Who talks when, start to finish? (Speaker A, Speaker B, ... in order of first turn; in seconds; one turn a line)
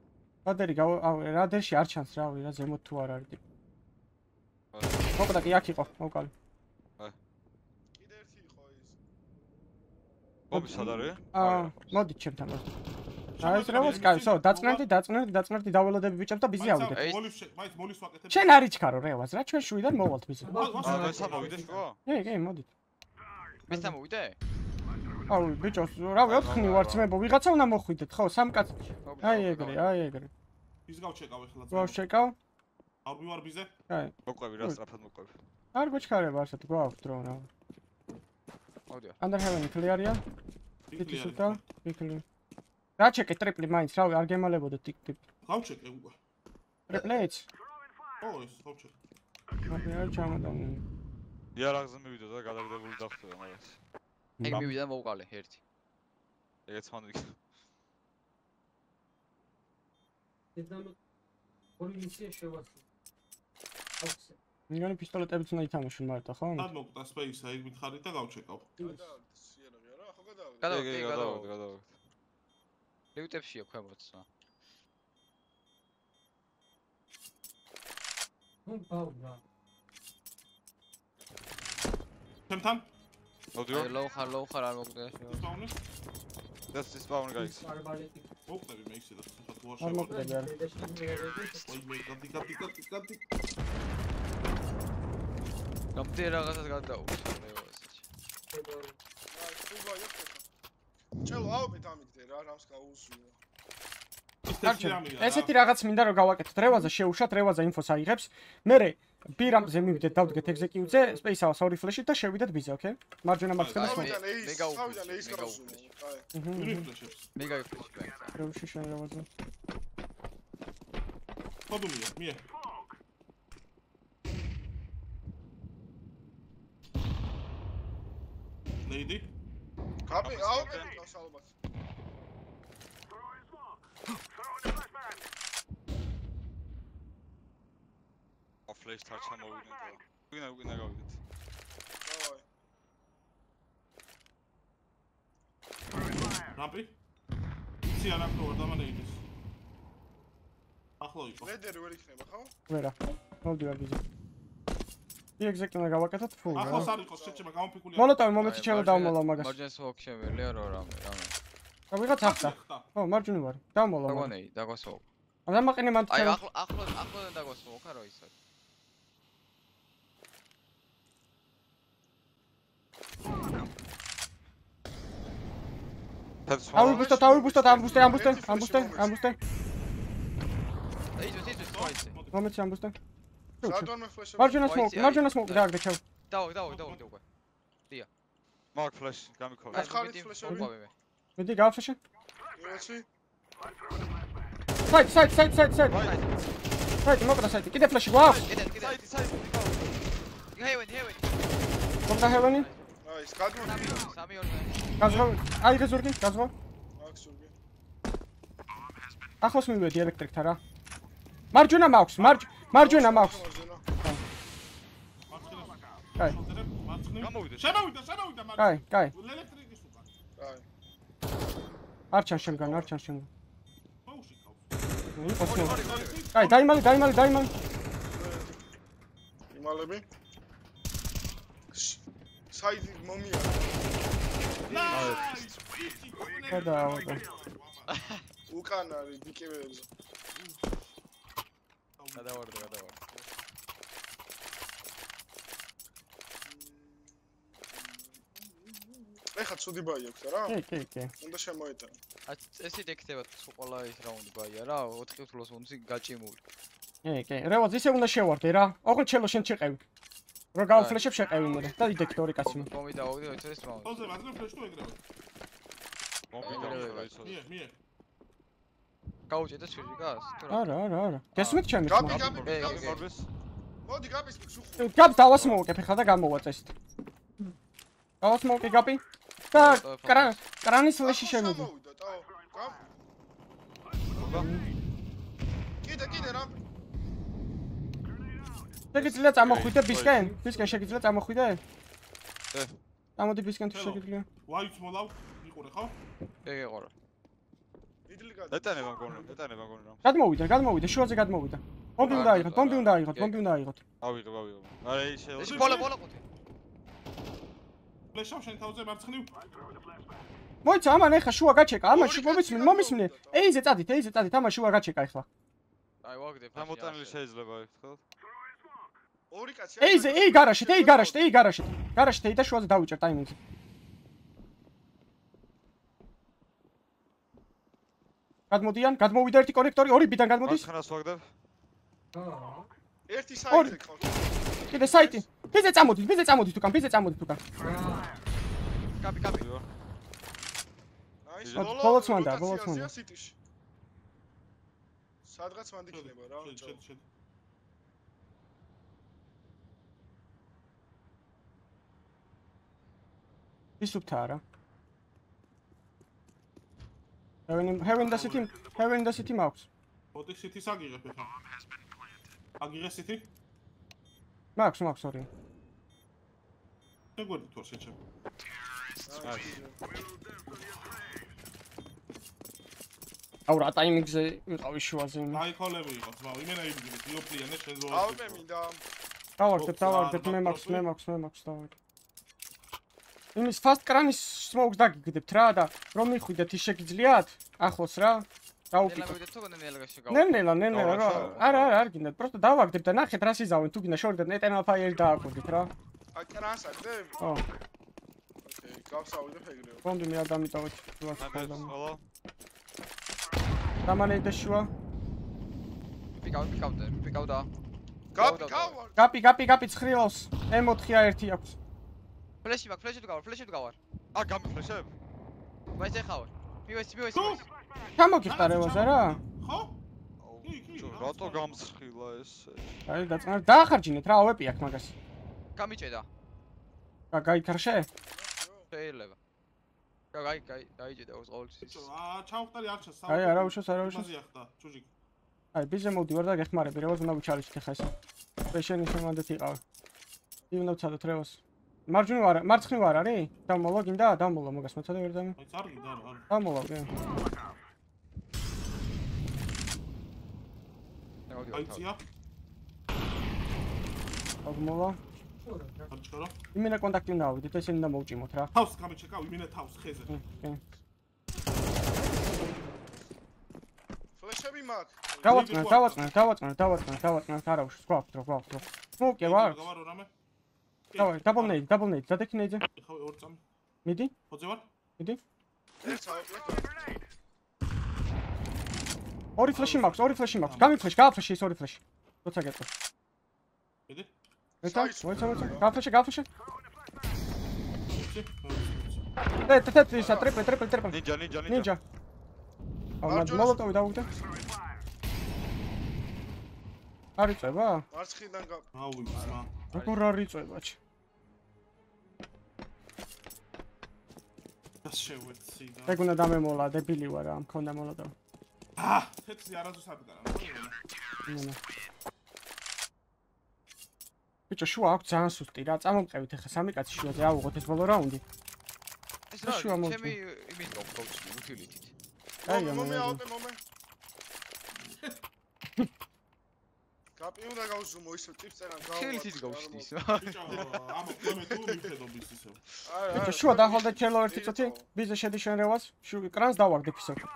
Speaker A: 0.4-3.4
Speaker B: 4.7-5.2
Speaker A: 5.2-6.3
Speaker C: 8.0-8.9
Speaker B: 10.5-11.7
Speaker D: 10.6-10.9
Speaker A: 11.3-12.7
Speaker D: 13.3-14.9
Speaker A: 13.4-17.0
Speaker B: 13.7-14.0
Speaker D: 16.6-18.6
Speaker E: 16.9-17.3
Speaker A: 18.3-20.8
Speaker F: 20.4-21.8
Speaker D: 20.4-21.7
Speaker B: 20.8-22.0
Speaker A: 22.0-22.7
Speaker E: 23.7-24.4
Speaker A: 23.7-23.9
Speaker A: 25.3-30.3
Speaker B: 26.2-27.1
Speaker E: 29.0-29.9
Speaker D: 30.9-32.0
Speaker A: 31.7-32.4
Speaker D: 33.0-33.7
Speaker A: 33.9-34.8
Speaker B: 34.2-35.4
Speaker A: 35.7-37.5
Speaker E: 38.9-39.2
Speaker A: 39.2-40.2
Speaker D: 40.9-41.7
Speaker A: 41.0-42.2
Speaker A: 43.0-45.2
Speaker D: 45.4-46.1
Speaker A: 46.9-47.5
Speaker D: 48.2-48.9
Speaker A: 49.7-50.8
Speaker B: 51.5-53.8
Speaker A: 54.4-54.7
Speaker B: 54.4-54.7
Speaker E: 54.5-55.6
Speaker B: 56.7-57.4
Speaker F: 60.5-60.9
Speaker F: 61.8-62.8
Speaker F: 64.0-64.3
Speaker A: 64.7-66.7
Speaker D: 66.5-68.7
Speaker C: 68.8-70.7
Speaker F: 68.8-69.1
Speaker E: 70.6-71.5
Speaker B: 70.6-71.9
Speaker E: 73.1-74.2
Speaker F: 78.6-79.4
Speaker D: 82.5-82.9
Speaker B: 83.5-83.9
Speaker E: 83.7-85.4
Speaker D: 85.2-85.8
Speaker B: 86.7-87.7
Speaker F: 87.3-88.2
Speaker D: 88.5-90.3
Speaker A: 89.8-90.5
Speaker F: 90.0-91.7
Speaker D: 91.7-93.2
Speaker E: 95.9-98.0
Speaker F: 98.5-98.9
Speaker C: 99.3-100.4
Speaker C: 101.2-103.4
Speaker D: 104.5-105.5
Speaker A: 104.6-114.2
Speaker F: 109.3-111.2
Speaker D: 113.5-113.9
Speaker C: 113.7-116.3
Speaker E: 113.7-115.9
Speaker A: 116.3-116.9
Speaker D: 116.5-117.3
Speaker E: 117.3-118.4
Speaker A: 118.4-119.3
Speaker D: 121.7-122.4
Speaker D: 128.8-129.3
Speaker C: 130.0-131.5
Speaker B: 130.2-130.9
Speaker B: 138.7-141.2
Speaker C: 142.0-142.4
Speaker D: 146.5-146.9
Speaker D: 147.8-149.2
Speaker D: 151.0-151.6
Speaker C: 151.4-152.5
Speaker A: 152.7-154.0
Speaker A: 155.4-156.9
Speaker C: 156.5-157.5
Speaker D: 156.5-158.2
Speaker A: 157.9-159.5
Speaker E: 158.4-161.3
Speaker A: 161.9-164.3
Speaker D: 162.1-162.9
Speaker E: 164.1-165.0
Speaker A: 165.5-166.4
Speaker E: 166.1-168.3
Speaker B: 176.4-177.1
Speaker C: 176.7-179.1
Speaker A: 176.7-179.4
Speaker E: 181.2-182.2
Speaker D: 181.4-182.4
Speaker A: 182.3-182.9
Speaker C: 183.6-184.7
Speaker A: 183.6-186.0
Speaker E: 184.6-185.7
Speaker E: 186.3-187.2
Speaker D: 186.7-187.1
Speaker B: 188.7-189.9
Speaker C: 189.7-190.7
Speaker E: 189.7-190.9
Speaker A: 190.4-190.7
Speaker A: 191.4-192.0
Speaker C: 192.5-193.1
Speaker A: 194.9-196.1
Speaker B: 195.9-196.2
Speaker E: 195.9-196.3
Speaker A: 197.0-198.5
Speaker B: 198.3-200.0
Speaker E: 198.3-199.1
Speaker E: 200.5-201.5
Speaker E: 202.0-203.0
Speaker A: 202.1-202.7
Speaker C: 203.0-204.1
Speaker E: 203.6-204.8
Speaker A: 205.0-206.5
Speaker D: 205.0-205.3
Speaker C: 206.9-207.5
Speaker A: 209.4-210.6
Speaker A: 211.5-213.4
Speaker D: 212.2-212.5
Speaker C: 212.7-213.8
Speaker D: 215.3-220.1
Speaker B: 217.2-217.7
Speaker A: 218.6-219.1
Speaker C: 220.4-220.6
Speaker A: 222.1-223.3
Speaker C: 222.3-222.9
Speaker D: 224.0-224.7
Speaker A: 225.2-227.5
Speaker E: 225.4-226.3
Speaker D: 225.5-226.8
Speaker C: 228.1-228.5
Speaker C: 229.5-230.0
Speaker C: 231.7-232.0
Speaker C: 232.5-233.8
Speaker D: 234.7-238.2
Speaker E: 234.9-235.2
Speaker B: 234.9-235.2
Speaker A: 236.5-237.2
Speaker E: 237.9-238.2
Speaker C: 238.5-239.9
Speaker D: 240.3-240.9
Speaker D: 242.0-243.3
Speaker E: 242.1-243.0
Speaker C: 246.4-247.2
Speaker C: 247.8-250.6
Speaker A: 250.5-251.1
Speaker C: 251.2-252.0
Speaker E: 252.3-256.4
Speaker A: 257.0-259.8
Speaker A: 260.5-262.7
Speaker E: 260.7-261.0
Speaker E: 262.4-264.1
Speaker D: 263.8-265.0
Speaker B: 266.3-267.4
Speaker E: 266.4-267.1
Speaker C: 266.4-267.0
Speaker D: 266.7-267.7
Speaker E: 269.3-270.7
Speaker A: 270.5-272.4
Speaker B: 271.4-273.3
Speaker C: 271.9-273.1
Speaker E: 272.4-273.0
Speaker C: 273.8-275.4
Speaker A: 274.8-276.7
Speaker B: 275.3-275.6
Speaker A: 278.2-281.7
Speaker E: 279.5-280.4
Speaker C: 281.0-282.9
Speaker B: 284.1-284.5
Speaker A: 284.3-284.6
Speaker C: 285.8-286.6
Speaker A: 288.9-291.6
Speaker B: 288.9-290.3
Speaker F: 290.0-291.0
Speaker A: 293.2-294.2
Speaker D: 293.7-296.0
Speaker E: 296.4-296.9
Speaker C: 298.1-299.2
Speaker B: 298.5-300.1
Speaker A: 300.0-303.8
Speaker E: 302.0-303.4
Speaker D: 302.0-302.3
Speaker B: 302.1-302.5
Speaker B: 304.0-305.9
Speaker E: 305.4-306.2
Speaker D: 305.4-305.9
Speaker D: 308.1-309.4
Speaker A: 310.6-315.2
Speaker C: 311.9-313.5
Speaker E: 316.0-317.2
Speaker B: 316.5-318.0
Speaker C: 319.3-321.2
Speaker A: 319.8-323.4
Speaker A: 328.5-330.7
Speaker B: 330.4-331.3
Speaker F: 332.1-332.7
Speaker C: 333.1-335.2
Speaker A: 333.5-333.8
Speaker A: 334.7-337.4
Speaker F: 337.6-338.2
Speaker E: 339.0-339.4
Speaker B: 339.4-339.7
Speaker C: 341.2-343.4
Speaker B: 341.4-341.8
Speaker A: 341.5-342.9
Speaker C: 345.2-346.8
Speaker D: 345.9-347.1
Speaker A: 353.8-354.4
Speaker A: 357.5-359.7
Speaker D: 358.0-358.5
Speaker D: 360.1-361.3
Speaker D: 362.6-363.3
Speaker A: 364.6-365.3
Speaker D: 367.1-368.0
Speaker C: 369.1-369.8
Speaker B: 369.2-369.6
Speaker A: 373.5-375.4
Speaker D: 375.3-378.4
Speaker C: 377.9-378.8
Speaker A: 379.4-381.7
Speaker D: 379.6-380.9
Speaker A: 383.3-389.1
Speaker E: 388.8-391.4
Speaker A: 390.1-395.7
Speaker B: 390.7-391.8
Speaker C: 396.1-397.2
Speaker A: 397.2-397.4
Speaker C: 398.4-399.9
Speaker A: 399.8-401.7
Speaker B: 401.1-402.0
Speaker A: 403.9-404.7
Speaker E: 406.1-407.5
Speaker C: 408.1-409.0
Speaker E: 408.2-408.8
Speaker A: 409.0-411.5
Speaker E: 412.4-413.8
Speaker B: 414.1-414.9
Speaker E: 415.8-417.4
Speaker D: 417.1-417.4
Speaker A: 418.0-419.2
Speaker D: 418.2-419.8
Speaker B: 420.2-422.8
Speaker D: 420.4-421.6
Speaker A: 422.9-424.9
Speaker E: 425.6-426.1
Speaker A: 427.1-427.9
Speaker C: 427.9-428.7
Speaker E: 428.7-429.2
Speaker E: 430.1-431.9
Speaker D: 431.6-434.9
Speaker A: 433.1-434.1
Speaker A: 435.5-437.9
Speaker A: 438.5-439.6
Speaker A: 440.5-445.4
Speaker D: 445.4-446.3
Speaker A: 446.3-446.9
Speaker E: 451.3-451.9
Speaker D: 451.5-452.0
Speaker A: 454.4-455.0
Speaker F: 455.4-455.9
Speaker D: 455.9-456.3
Speaker A: 456.5-458.5
Speaker D: 458.5-460.2
Speaker A: 460.1-460.6
Speaker C: 464.2-465.6
Speaker D: 465.2-466.1
Speaker A: 465.2-469.6
Speaker D: 469.2-470.1
Speaker D: 470.9-471.7
Speaker A: 471.0-472.6
Speaker D: 472.8-473.4
Speaker A: 473.8-474.1
Speaker D: 474.3-474.6
Speaker C: 475.8-477.0
Speaker A: 479.4-482.7
Speaker D: 479.5-480.9
Speaker C: 484.6-485.7
Speaker A: 484.6-486.3
Speaker D: 487.9-489.0
Speaker A: 489.4-491.8
Speaker C: 490.0-490.3
Speaker B: 490.9-491.7
Speaker A: 493.0-494.1
Speaker C: 493.0-494.2
Speaker A: 497.2-497.9
Speaker C: 497.9-498.7
Speaker D: 498.7-499.5
Speaker E: 499.1-500.1
Speaker A: 499.7-500.8
Speaker D: 504.8-506.1
Speaker A: 505.9-508.1
Speaker D: 508.8-510.8
Speaker A: 511.3-511.6
Speaker A: 514.5-518.2
Speaker E: 519.3-521.9
Speaker A: 519.4-520.2
Speaker A: 522.4-523.2
Speaker C: 522.4-523.6
Speaker D: 524.7-525.2
Speaker C: 527.1-529.9
Speaker E: 528.8-531.2
Speaker D: 530.2-532.6
Speaker C: 532.8-534.9
Speaker A: 533.1-537.2